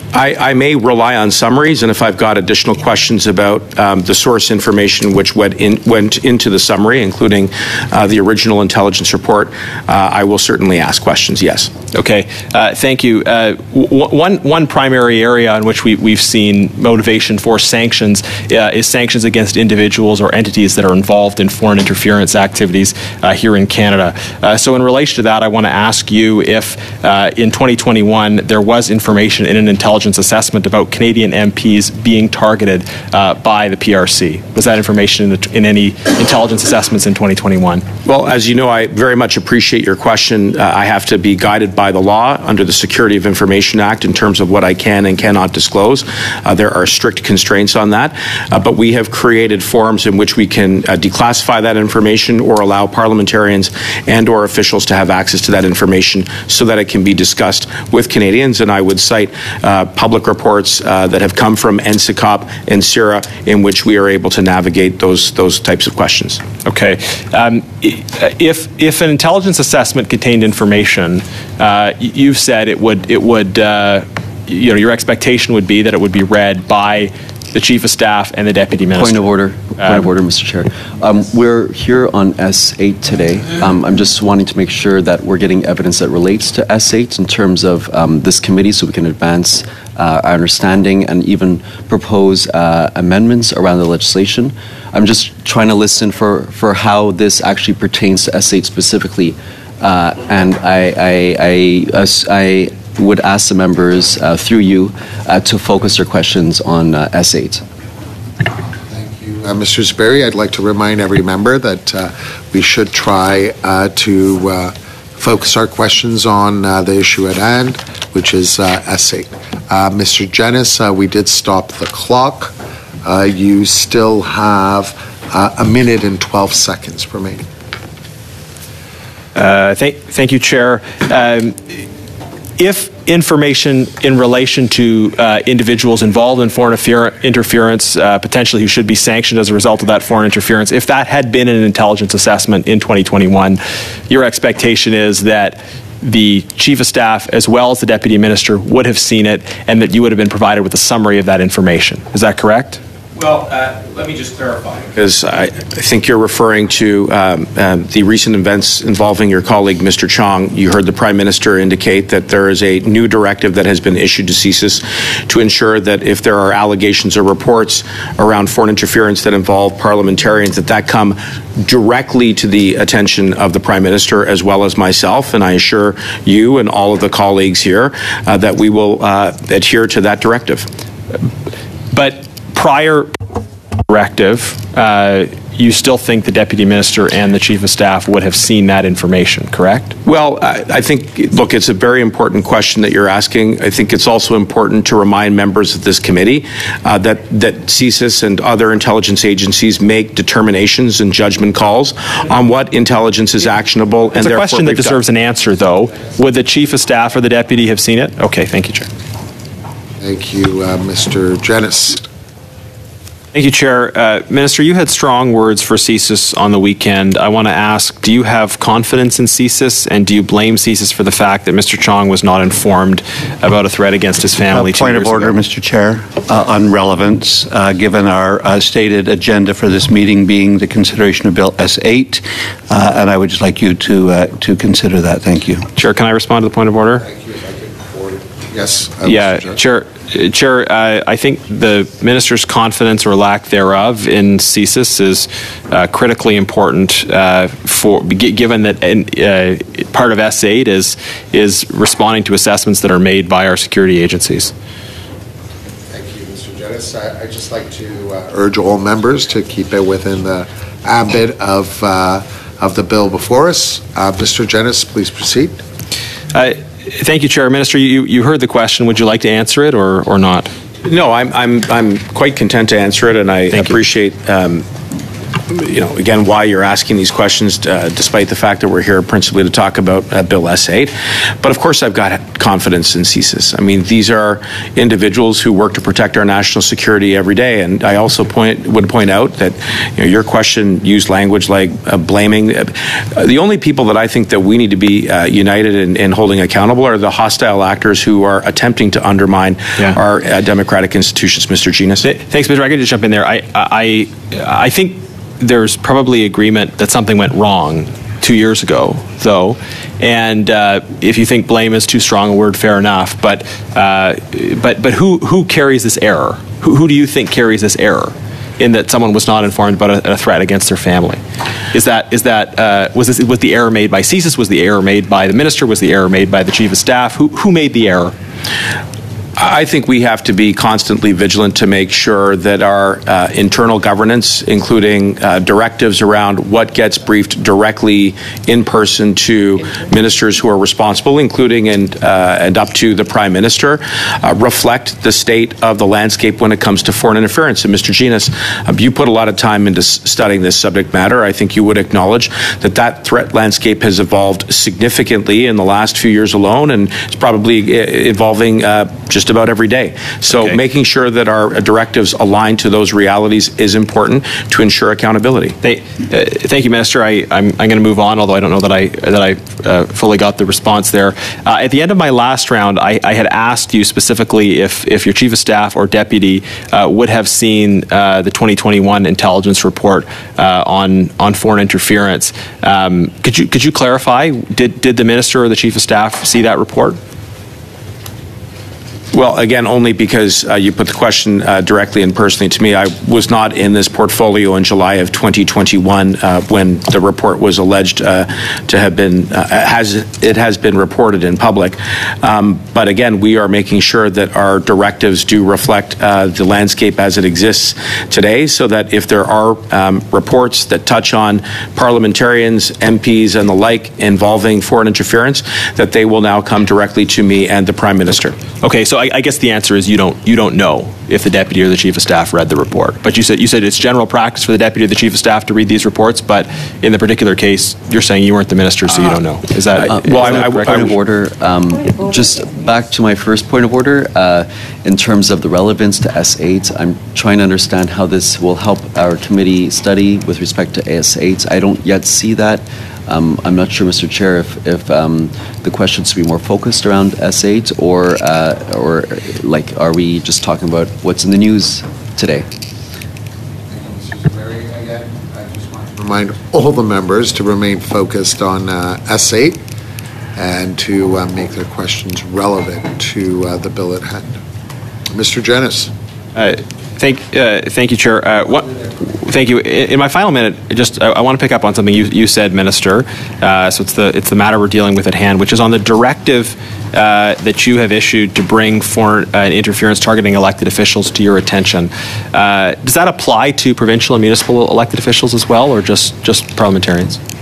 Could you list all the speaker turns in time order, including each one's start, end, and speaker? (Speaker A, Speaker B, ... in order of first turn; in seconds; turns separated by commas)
Speaker A: 0.1-11.7, Speaker B: 11.9-37.8, Speaker A: 38.0-66.4, Speaker B: 66.7-79.2, Speaker C: 78.9-107.6, Speaker B: 79.8-80.1, Speaker D: 108.9-122.5, Speaker D: 123.0-127.4, Speaker B: 129.3-131.8, Speaker B: 132.6-152.8, Speaker A: 153.2-180.7, Speaker B: 181.9-183.1, Speaker B: 183.9-189.9, Speaker A: 190.0-205.0, Speaker B: 204.2-208.9, Speaker D: 210.0-212.1, Speaker B: 213.3-225.4, Speaker E: 224.5-235.7, Speaker B: 235.8-237.1, Speaker D: 237.0-239.6, Speaker B: 239.1-254.5, Speaker D: 255.9-265.6, Speaker B: 266.3-270.5, Speaker A: 270.8-274.6, Speaker B: 273.5-273.8, Speaker A: 275.5-302.1, Speaker B: 302.0-321.2, Speaker B: 321.7-328.1, Speaker A: 329.4-365.6, Speaker B: 360.3-360.6, Speaker B: 365.6-387.0, Speaker A: 389.1-418.4, Speaker B: 418.6-430.9, Speaker A: 429.8-431.0, Speaker C: 429.9-452.5, Speaker D: 453.7-459.6, Speaker D: 460.4-464.4, Speaker D: 465.1-465.9, Speaker B: 466.4-487.2